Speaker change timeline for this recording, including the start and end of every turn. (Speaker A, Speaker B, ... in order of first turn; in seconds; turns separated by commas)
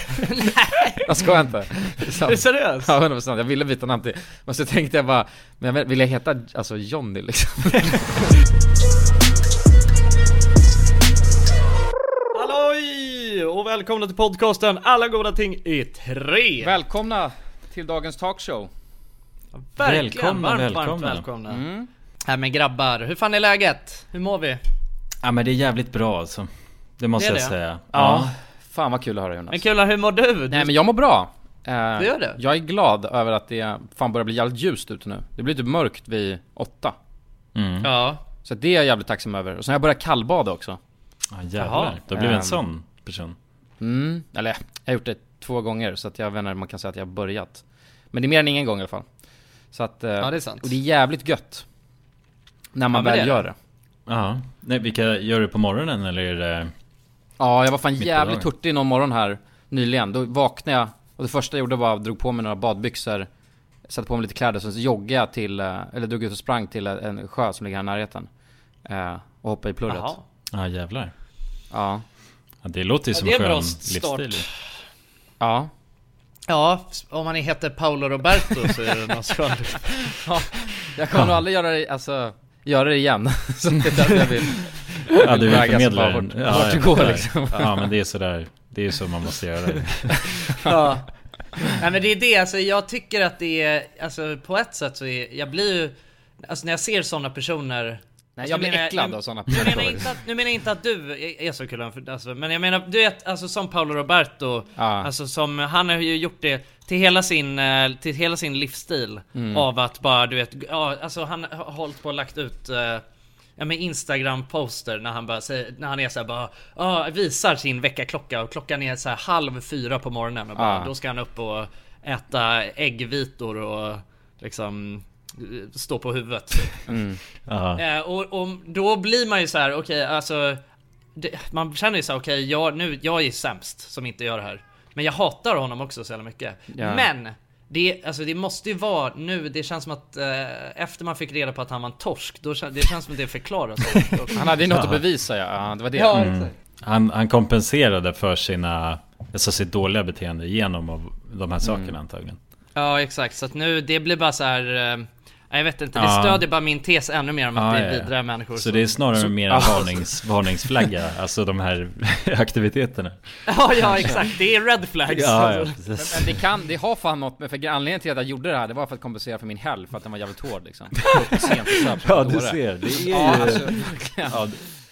Speaker A: 0.2-1.1, Speaker B: 1.1-7.9, Speaker A: 2.2-2.9, Speaker A: 12.3-16.7, Speaker B: 16.6-18.7, Speaker A: 19.6-21.6, Speaker C: 19.8-21.3, Speaker B: 21.5-21.9, Speaker A: 22.3-24.6, Speaker C: 25.2-28.4, Speaker A: 27.2-27.6, Speaker B: 27.9-29.6, Speaker A: 29.5-30.7, Speaker B: 30.5-37.0, Speaker A: 32.0-32.4, Speaker C: 37.5-37.9, Speaker A: 37.8-38.2, Speaker B: 38.4-40.8, Speaker C: 41.3-43.4, Speaker A: 41.6-42.0, Speaker B: 42.1-42.6, Speaker B: 43.8-49.1, Speaker B: 49.7-51.6, Speaker A: 50.2-50.7, Speaker B: 52.8-53.5, Speaker A: 52.9-53.4, Speaker C: 54.1-56.7, Speaker B: 57.4-63.3, Speaker C: 58.0-58.5, Speaker B: 63.9-68.3, Speaker B: 68.9-70.1, Speaker A: 69.9-70.2, Speaker C: 70.5-71.1, Speaker B: 71.7-72.0, Speaker C: 72.6-74.5, Speaker A: 73.1-74.5, Speaker B: 75.4-75.7, Speaker A: 76.5-80.1, Speaker B: 80.2-87.9, Speaker C: 81.1-81.4, Speaker C: 85.2-90.7, Speaker A: 90.6-91.1, Speaker A: 91.7-95.9, Speaker A: 96.5-113.0, Speaker B: 98.4-100.1, Speaker B: 104.8-105.1, Speaker B: 109.3-109.7, Speaker A: 113.6-126.8, Speaker B: 120.6-120.9, Speaker B: 126.9-127.2, Speaker C: 127.5-127.8, Speaker A: 127.8-130.6, Speaker A: 131.2-144.5, Speaker B: 136.7-137.1, Speaker B: 144.3-146.3, Speaker C: 144.7-145.0, Speaker A: 145.9-146.5, Speaker C: 146.1-152.4, Speaker B: 151.6-151.9, Speaker A: 152.8-159.0, Speaker C: 155.9-156.4, Speaker C: 157.6-163.2, Speaker B: 159.5-159.9, Speaker A: 163.5-165.8, Speaker C: 163.7-164.2, Speaker C: 165.1-166.3, Speaker B: 166.0-174.4, Speaker C: 172.0-174.6